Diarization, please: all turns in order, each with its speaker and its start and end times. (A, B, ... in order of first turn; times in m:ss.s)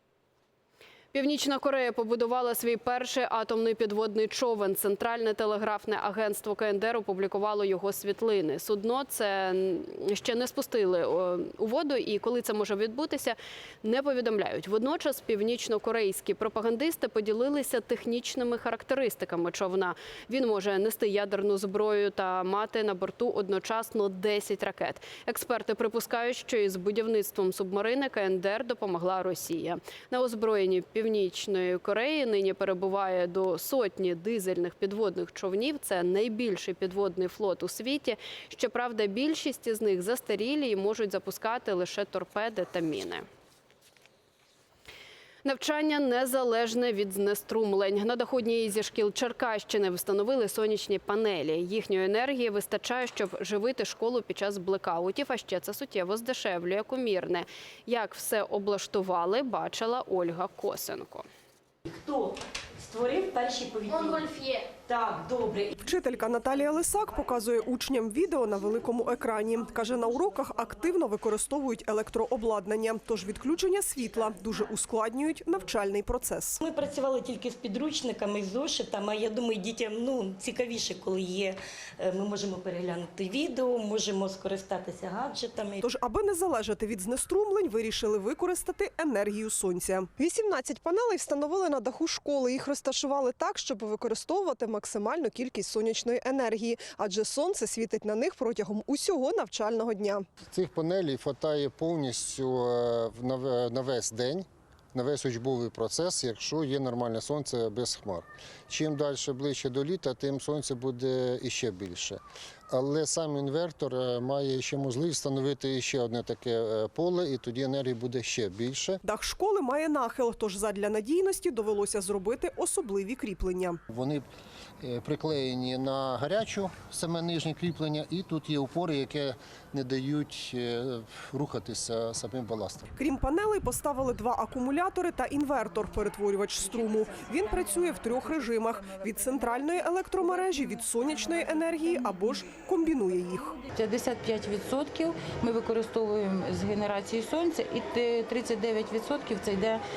0:01.1-0:43.2 A
0:45.4-1:01.2 A
1:01.8-1:05.8 B
1:05.8-1:16.6 C
1:16.6-1:25.9 B
1:25.8-1:40.2 C
1:40.5-1:59.0 D
1:59.0-2:03.8 C
2:03.9-2:04.3 D
2:04.8-2:12.9 D
2:13.0-2:23.6 C
2:23.7-2:29.8 E